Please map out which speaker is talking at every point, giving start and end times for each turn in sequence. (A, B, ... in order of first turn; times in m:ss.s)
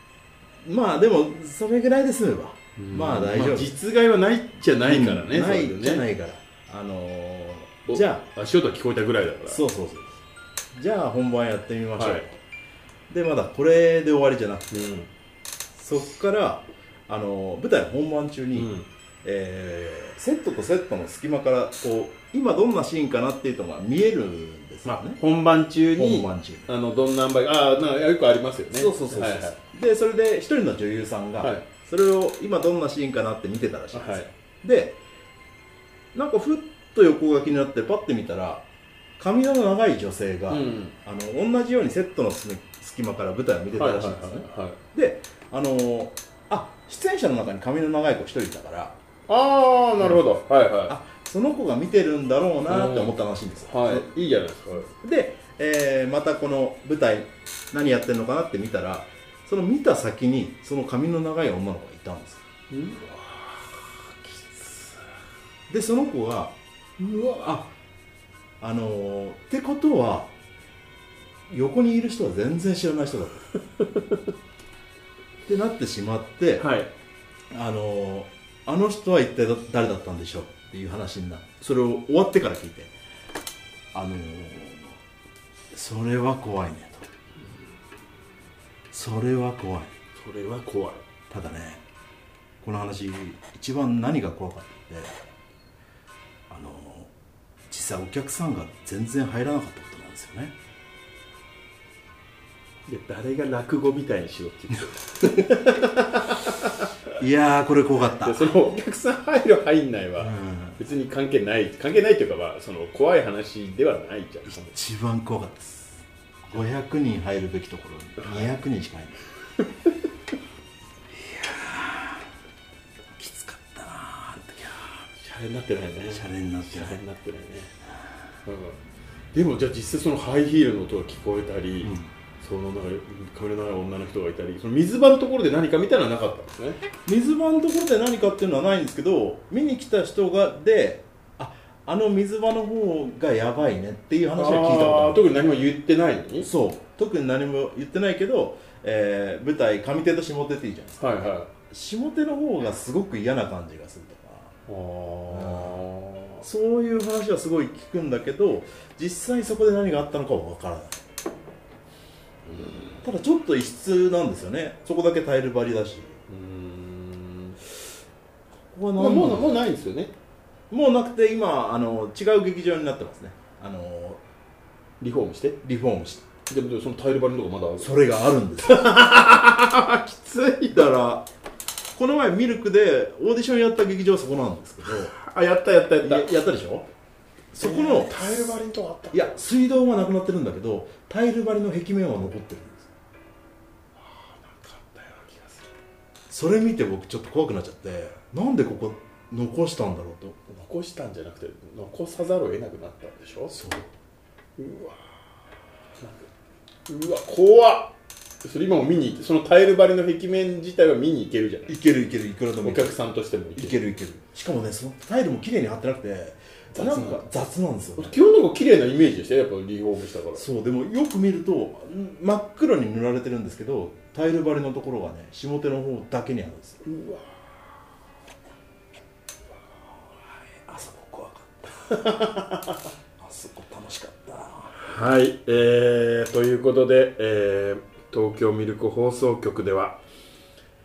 0:00.6-0:03.8 A
0:02.8-0:06.1 B
0:04.8-0:08.2 A
0:07.9-0:09.6 B
0:09.4-0:10.1 A
0:10.7-0:12.4 A
0:12.0-0:12.2 B
0:13.1-0:14.9 A
0:14.7-0:15.1 B
0:15.8-0:18.7 A
0:18.5-0:18.9 B
0:19.2-0:25.2 A
0:24.8-0:29.6 B
0:26.0-0:26.7 A
0:28.7-0:35.0 A
0:31.4-0:31.7 B
0:33.9-0:34.3 B
0:36.1-0:38.6 A
0:39.2-0:49.0 A
0:40.5-0:40.9 B
0:43.7-0:44.8 B
0:49.3-0:51.0 B
0:50.0-0:50.3 A
0:50.9-0:54.1 A
0:52.7-0:54.9 B
0:54.9-1:02.4 A
1:02.7-1:05.0 B
1:05.7-1:06.6 A
1:07.0-1:07.7 B
1:07.4-1:07.6 A
1:08.6-1:10.3 A
1:11.5-1:13.4 A
1:13.8-1:14.2 B
1:15.5-1:16.7 A
1:16.6-1:16.9 B
1:17.5-1:22.9 A
1:23.9-1:25.0 A
1:25.7-1:27.1 A
1:28.9-1:29.9 A
1:30.2-1:31.0 B
1:31.3-1:31.8 A
1:32.6-1:35.2 A
1:36.5-1:37.1 A
1:37.7-1:40.5 A
1:42.9-1:46.9 B
1:47.2-1:48.6 A
1:48.2-1:54.8 B
1:50.2-1:50.8 A
1:54.7-1:59.2 A
1:58.2-1:58.5 B
2:01.2-2:02.3 A
2:03.2-2:05.1 A
2:05.2-2:07.7 B
2:06.1-2:07.0 A
2:08.4-2:08.8 B
2:09.3-2:16.8 B
2:11.8-2:12.1 A
2:17.1-2:25.3 A
2:24.3-2:26.5 B
2:26.4-2:34.5 A
2:31.0-2:31.5 B
2:34.7-2:36.4 B
2:35.3-2:35.8 A
2:36.4-2:41.0 A
2:42.4-2:43.1 B
2:43.0-2:46.2 A
2:46.3-2:47.6 B
2:48.7-2:49.6 A
2:49.0-2:50.1 B
2:50.7-2:54.2 A
2:55.0-2:55.6 B
2:55.6-2:56.3 A
2:56.4-2:57.9 B
2:57.8-2:58.8 A
2:58.6-3:00.9 B
3:00.7-3:01.3 A
3:01.9-3:05.1 A
3:04.8-3:06.3 B
3:06.0-3:06.9 A
3:07.5-3:08.6 A
3:07.6-3:09.4 B
3:09.1-3:12.9 A
3:14.0-3:15.7 B
3:16.3-3:20.4 A
3:20.5-3:23.6 B
3:23.5-3:23.9 A
3:24.6-3:25.0 B
3:26.0-3:26.3 B
3:26.9-3:31.8 B
3:31.7-3:33.0 A
3:32.6-3:33.8 B
3:33.6-3:38.2 A
3:36.7-3:37.3 B
3:38.0-3:40.4 B
3:40.3-3:46.8 A
3:46.8-3:47.4 B
3:50.6-3:51.8 A
3:51.8-3:52.8 B
3:53.2-3:54.8 A
3:54.8-4:00.0 B